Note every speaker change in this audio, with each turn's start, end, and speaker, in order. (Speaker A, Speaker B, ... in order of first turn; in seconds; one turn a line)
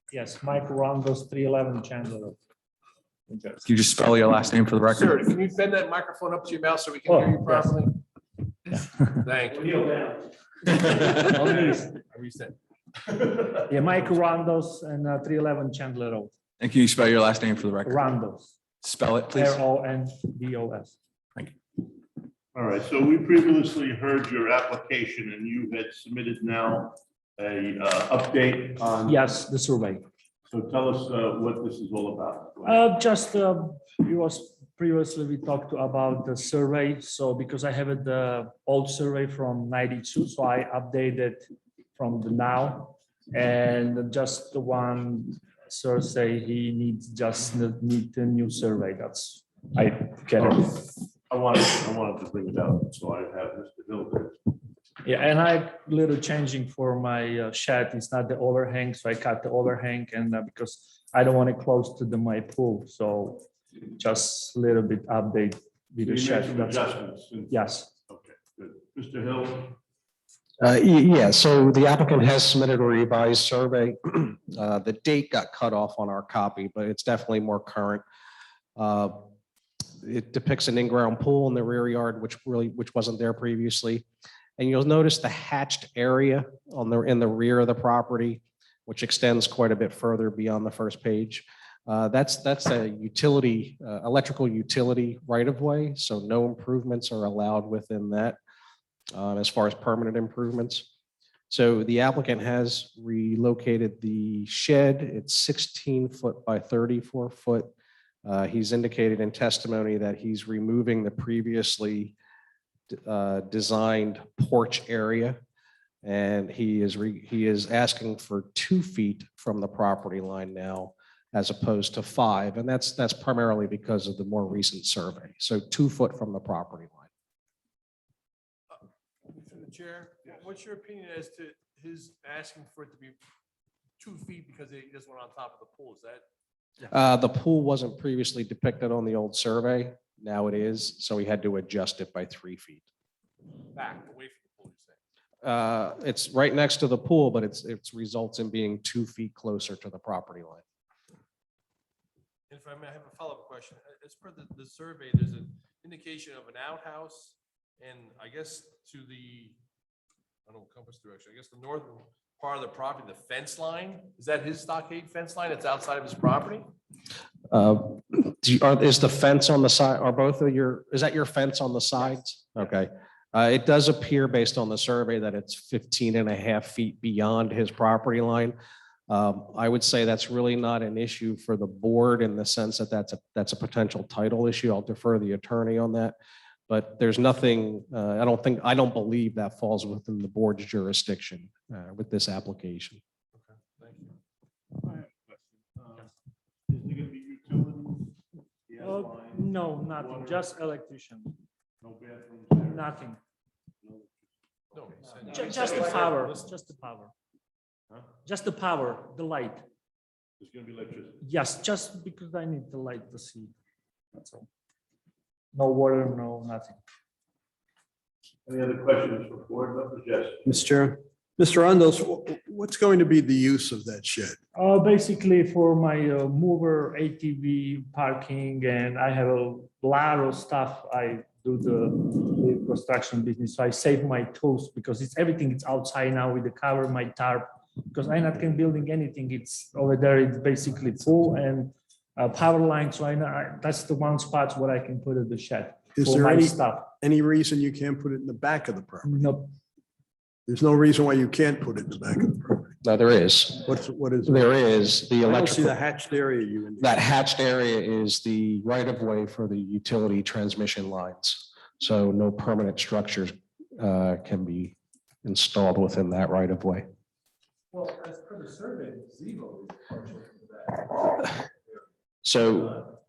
Speaker A: 0.1-2.4
Speaker A: 3.3-3.6
Speaker B: 3.6-5.2
Speaker C: 4.9-8.0
Speaker A: 7.1-7.6
Speaker C: 8.7-12.5
Speaker A: 11.0-11.8
Speaker A: 13.5-16.3
Speaker B: 16.6-18.0
Speaker A: 17.8-18.6
Speaker B: 18.8-19.6
Speaker A: 19.3-20.9
Speaker D: 22.5-29.2
Speaker A: 29.0-30.0
Speaker D: 30.5-32.8
Speaker A: 32.6-41.4
Speaker A: 42.0-50.8
Speaker D: 50.4-54.5
Speaker A: 55.0-66.9
Speaker D: 66.0-69.8
Speaker A: 67.5-67.9
Speaker E: 70.6-78.0
Speaker E: 78.8-79.2
Speaker E: 80.0-84.0
Speaker E: 84.6-98.4
Speaker E: 99.1-100.9
Speaker E: 101.5-107.7
Speaker E: 108.2-112.1
Speaker E: 112.9-115.4
Speaker E: 116.0-127.1
Speaker C: 129.3-133.2
Speaker C: 134.0-136.2
Speaker E: 136.9-142.8
Speaker C: 143.7-145.0
Speaker E: 145.4-150.6
Speaker C: 152.5-159.6
Speaker C: 160.5-166.7
Speaker E: 167.5-178.5
Speaker E: 179.1-186.2
Speaker E: 186.7-193.0
Speaker C: 193.3-194.1
Speaker D: 194.8-196.1
Speaker D: 196.7-198.2
Speaker D: 198.7-200.4
Speaker A: 198.8-201.4
Speaker D: 201.8-202.9
Speaker A: 202.6-203.2
Speaker D: 203.8-204.8
Speaker C: 204.7-206.3
Speaker A: 205.2-207.1
Speaker A: 208.2-209.6
Speaker D: 210.4-211.2
Speaker A: 211.2-213.5
Speaker A: 214.1-214.5
Speaker A: 215.5-216.8
Speaker D: 218.4-220.4
Speaker F: 220.4-224.4
Speaker A: 224.5-246.9
Speaker F: 245.9-249.3
Speaker A: 249.0-249.5
Speaker F: 250.4-252.8
Speaker E: 252.8-253.7
Speaker F: 253.6-254.6
Speaker E: 254.2-255.7
Speaker F: 255.2-257.1
Speaker E: 256.8-266.8
Speaker C: 267.7-270.8
Speaker E: 272.2-272.8